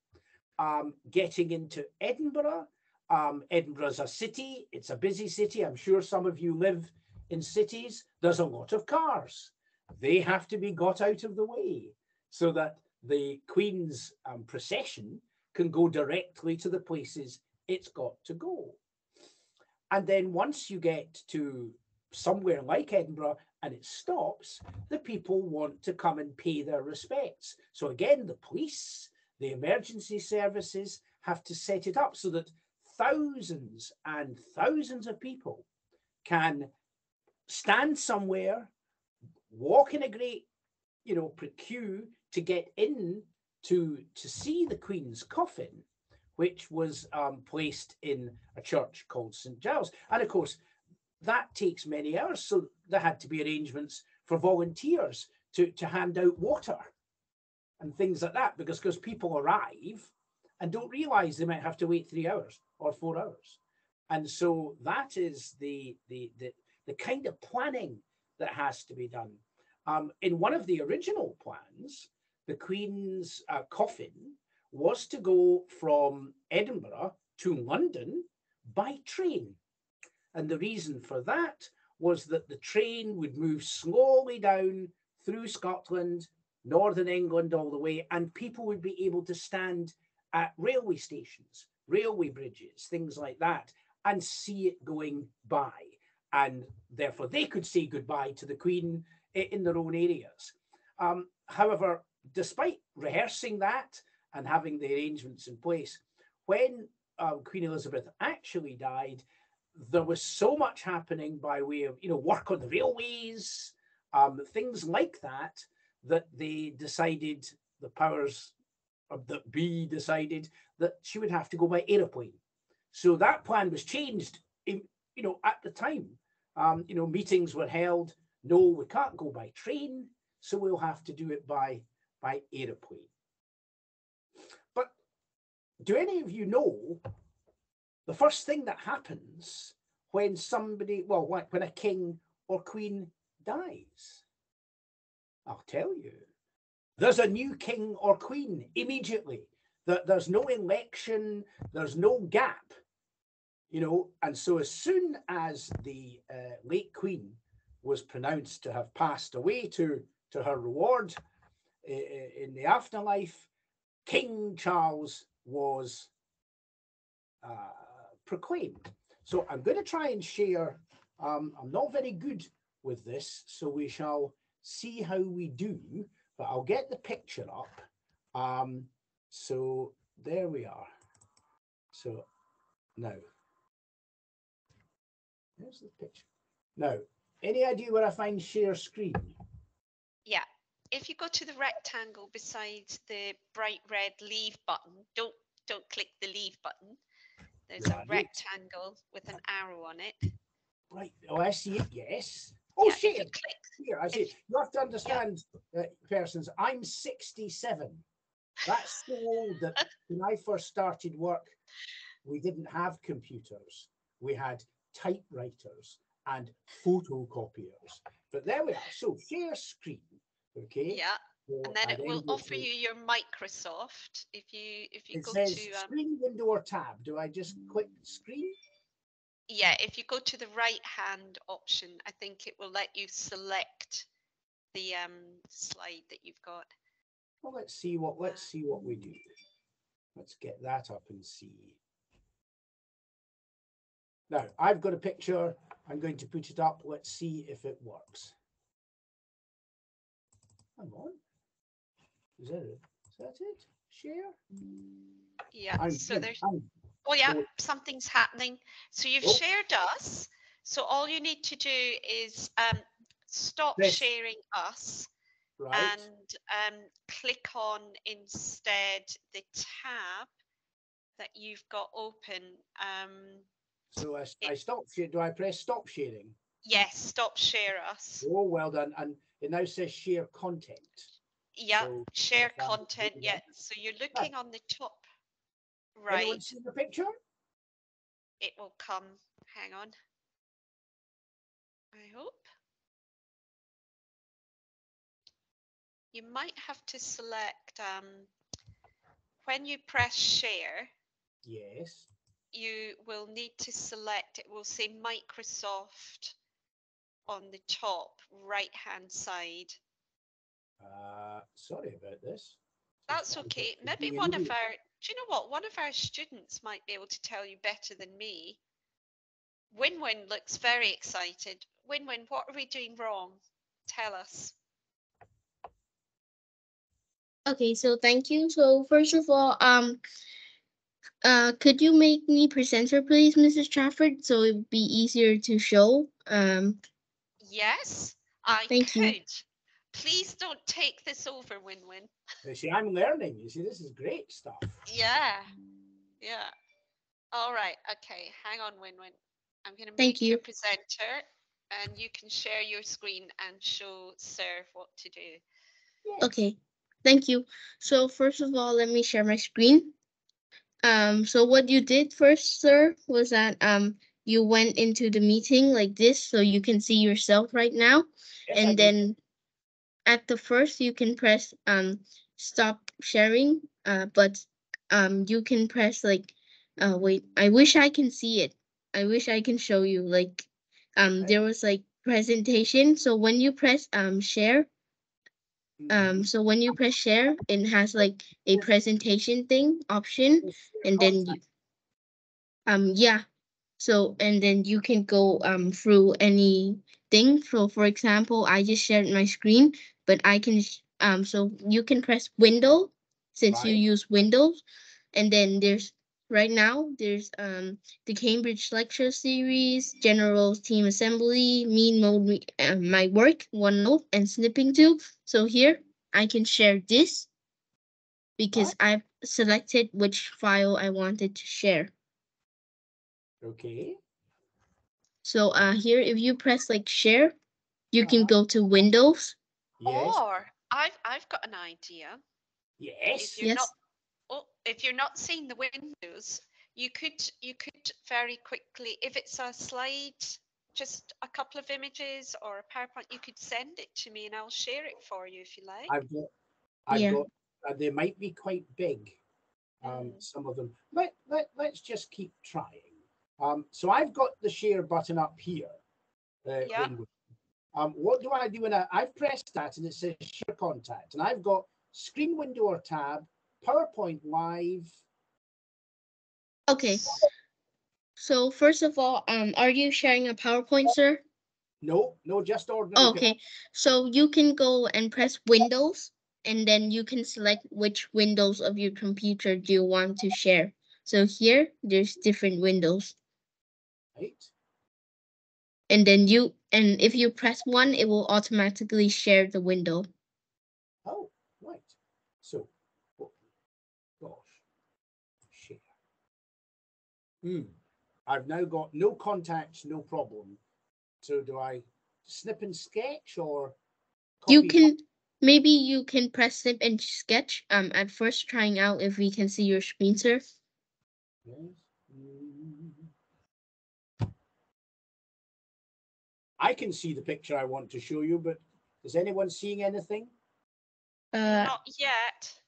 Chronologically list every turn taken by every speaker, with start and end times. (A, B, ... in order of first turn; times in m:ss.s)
0:00.6-0:18.8 A
0:19.9-0:35.6 A
0:36.2-0:36.7 A
0:37.5-0:38.7 A
0:39.5-0:40.5 A
0:41.0-0:45.8 A
0:46.4-0:50.6 A
0:51.2-0:56.9 A
0:57.8-1:03.6 A
1:04.1-1:19.6 A
1:20.3-1:49.2 A
1:49.7-1:58.5 A
1:59.1-2:02.4 A
2:02.9-2:13.1 A
2:15.8-2:17.0 A
2:18.0-2:24.2 A
2:25.4-2:26.2 A
2:27.0-2:32.7 A
2:33.7-2:41.2 A
2:41.8-2:43.5 A
2:44.0-2:46.1 A
2:47.4-2:57.8 A
2:58.3-3:00.9 A
3:01.9-3:02.2 A
3:03.0-3:03.2 A
3:05.6-3:06.2 A
3:06.8-3:09.4 A
3:10.2-3:17.0 B
3:17.7-3:20.2 B
3:17.8-3:18.4 A
3:20.9-3:28.0 A
3:22.8-3:24.2 B
3:28.6-3:31.6 A
3:32.2-3:42.6 A
3:40.9-3:45.9 B
3:45.1-3:48.6 A
3:49.5-3:54.1 B
3:54.7-3:56.7 B
3:57.4-3:59.2 A
4:00.2-4:01.8 A
4:04.3-4:08.3 A
4:10.8-4:11.2 A
4:12.4-4:14.4 A
4:15.5-4:16.4 B
4:15.8-4:16.7 A
4:17.0-4:25.1 B
4:23.8-4:24.0 A
4:25.6-4:26.0 A
4:25.7-4:30.3 B
4:31.2-4:33.4 B
4:33.9-4:36.3 A
4:36.6-4:38.2 B
4:38.2-4:41.1 A
4:41.6-4:45.0 B
4:41.8-4:43.4 A
4:46.0-4:46.4 B
4:46.1-4:47.1 A
4:48.4-4:49.9 B
4:51.9-4:52.5 B
4:56.1-4:58.3 B
4:59.4-5:00.9 B
5:01.4-5:02.1 A
5:02.5-5:06.3 B
5:07.3-5:09.8 B
5:10.8-5:14.5 A
5:13.1-5:18.6 B
5:19.7-5:24.5 B
5:27.5-5:30.0 C
5:31.2-5:36.8 C
5:37.4-5:42.1 B
5:38.7-5:39.1 C
5:42.4-5:44.8 A
5:44.9-5:45.5 B
5:46.2-5:46.5 B
5:47.3-5:55.4 B
5:50.0-5:50.4 C
5:56.0-5:56.3 A
5:56.2-5:59.9 C
6:00.8-6:09.2 C
6:08.5-6:08.9 A
6:10.0-6:24.7 C
6:25.8-6:26.3 A
6:25.9-6:31.4 C
6:30.4-6:31.4 A
6:32.7-6:33.2 C
6:33.8-6:44.6 C
6:43.5-6:43.8 A
6:45.1-6:57.3 C
6:58.4-7:01.9 C
7:03.4-7:04.0 A
7:05.2-7:07.4 C
7:07.9-7:09.4 C
7:08.0-7:08.3 A
7:09.8-7:10.2 A
7:09.8-7:12.2 B
7:12.8-7:13.5 A
7:13.2-7:13.7 B
7:13.4-7:13.7 C
7:14.3-7:25.9 B
7:25.9-7:26.3 A
7:26.9-7:29.2 A
7:26.9-7:27.2 C
7:29.8-7:35.7 A
7:29.8-7:30.2 B
7:36.4-7:37.1 A
7:36.6-7:36.9 B
7:37.7-7:45.0 A
7:46.7-7:47.2 C
7:48.2-7:51.2 C
7:51.8-7:53.3 A
7:53.0-8:03.1 C
8:04.2-8:04.5 A
8:05.9-8:10.1 C
8:11.0-8:13.3 A
8:14.2-8:14.6 A
8:15.5-8:15.8 A
8:17.4-8:17.7 A
8:18.3-8:20.6 A
8:21.2-8:23.8 A
8:24.4-8:24.9 A
8:24.5-8:30.4 C
8:31.4-8:33.1 A
8:36.6-8:40.3 A
8:41.3-8:41.8 C
8:41.4-8:42.6 B